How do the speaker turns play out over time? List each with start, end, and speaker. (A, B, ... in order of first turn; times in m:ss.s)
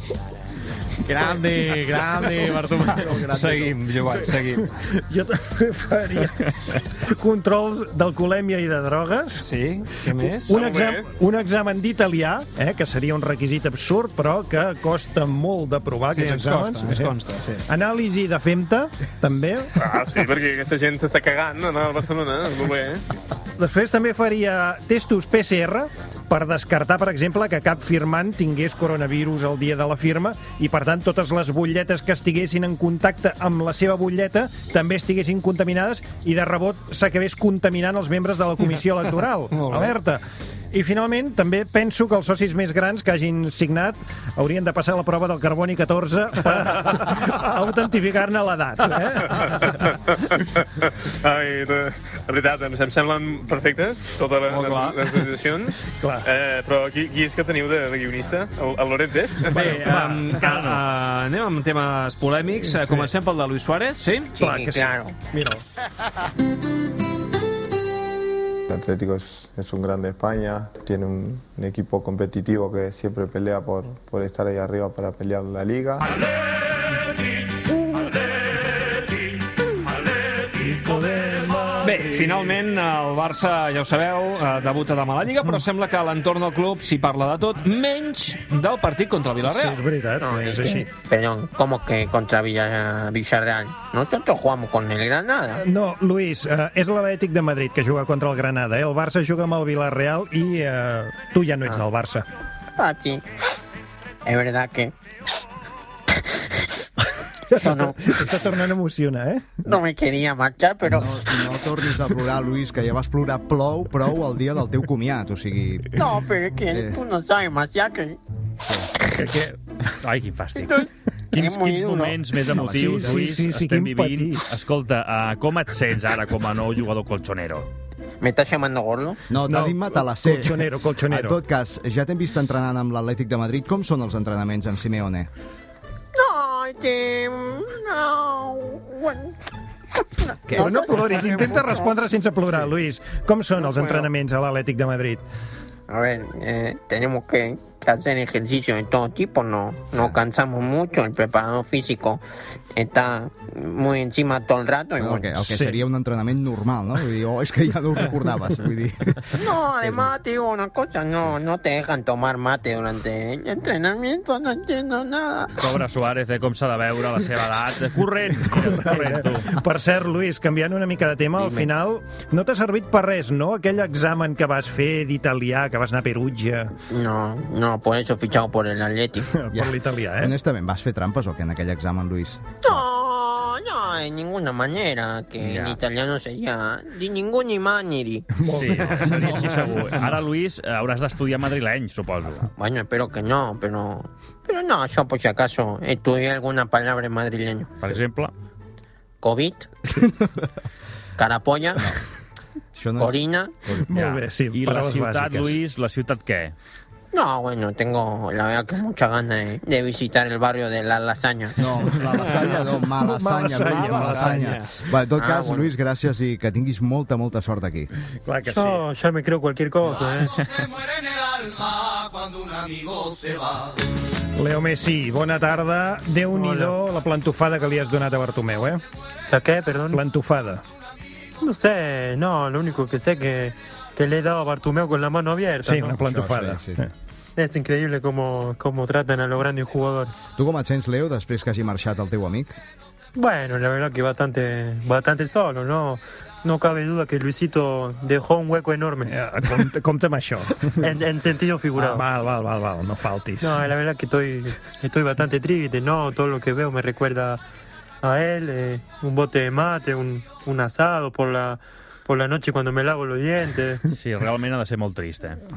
0:01.0-0:03.2 A
0:02.8-0:03.9 B
0:03.2-0:04.7 C
0:04.8-0:09.5 D
0:09.4-0:10.6 C
0:10.0-0:19.7 D
0:10.5-0:11.1 E
0:16.1-0:17.6 C
0:19.8-0:23.0 E
0:23.6-0:49.8 D
0:49.6-0:59.7 E
0:54.5-0:55.3 C
0:55.9-0:56.3 D
0:59.5-1:04.3 C
0:59.5-1:00.8 D
1:02.7-1:03.1 D
1:04.4-1:05.2 F
1:04.4-1:05.6 D
1:08.7-1:16.1 G
1:20.5-1:22.4 D
1:21.8-1:29.8 C
1:29.4-1:30.9 D
1:30.2-1:35.6 F
1:35.6-1:42.3 D
1:42.8-1:43.2 F
1:44.2-1:44.9 F
1:46.1-1:46.7 F
1:47.5-1:49.6 D
1:47.5-1:48.4 F
1:49.6-1:51.3 F
1:50.9-1:56.0 B
1:55.9-1:58.2 F
1:56.7-1:57.0 B
1:59.1-1:59.6 D
2:00.0-2:07.7 H
2:01.3-2:02.2 F
2:02.5-2:03.3 B
2:02.6-2:04.5 D
2:08.2-2:09.2 F
2:09.3-2:15.3 B
2:09.5-2:11.4 D
2:16.2-2:19.4 F
2:20.0-2:21.9 F
2:20.5-2:21.7 B
2:20.5-2:25.2 D
2:23.6-2:24.1 F
2:25.9-2:32.2 F
2:32.8-2:35.4 F
2:35.0-2:40.1 B
2:35.5-2:35.8 D
2:39.3-2:45.6 F
2:45.6-2:49.6 H
2:48.5-2:56.7 D
2:51.4-2:51.7 F
2:56.9-2:59.3 F
2:59.3-3:00.3 D
2:59.5-3:02.4 B
3:02.6-3:08.3 F
3:05.4-3:05.7 H
3:08.4-3:09.6 D
3:08.5-3:12.5 H
3:12.6-3:17.7 F
3:17.8-3:18.3 H
3:19.2-3:19.7 F
3:21.2-3:21.9 F
3:22.8-3:23.9 B
3:23.0-3:23.5 F
3:23.9-3:25.6 D
3:23.9-3:26.6 H
3:27.1-3:31.6 F
3:31.6-3:37.9 B
3:32.2-3:32.8 C
3:32.8-3:34.6 D
3:33.6-3:34.7 C
3:35.2-3:35.7 F
3:38.3-3:38.8 D
3:38.5-3:40.4 I
3:41.1-3:43.5 B
3:44.4-3:48.8 D
3:46.3-3:46.7 I
3:49.3-3:50.0 I
3:49.9-3:50.6 D
3:51.4-3:55.9 I
3:55.6-3:56.9 D
3:56.0-3:56.8 B
3:57.4-4:00.1 I
4:00.4-4:02.6 B
4:03.2-4:09.1 I
4:09.1-4:10.8 D
4:10.8-4:12.0 I
4:11.8-4:13.6 D
4:13.4-4:17.4 I
4:18.0-4:23.8 I
4:23.9-4:25.4 H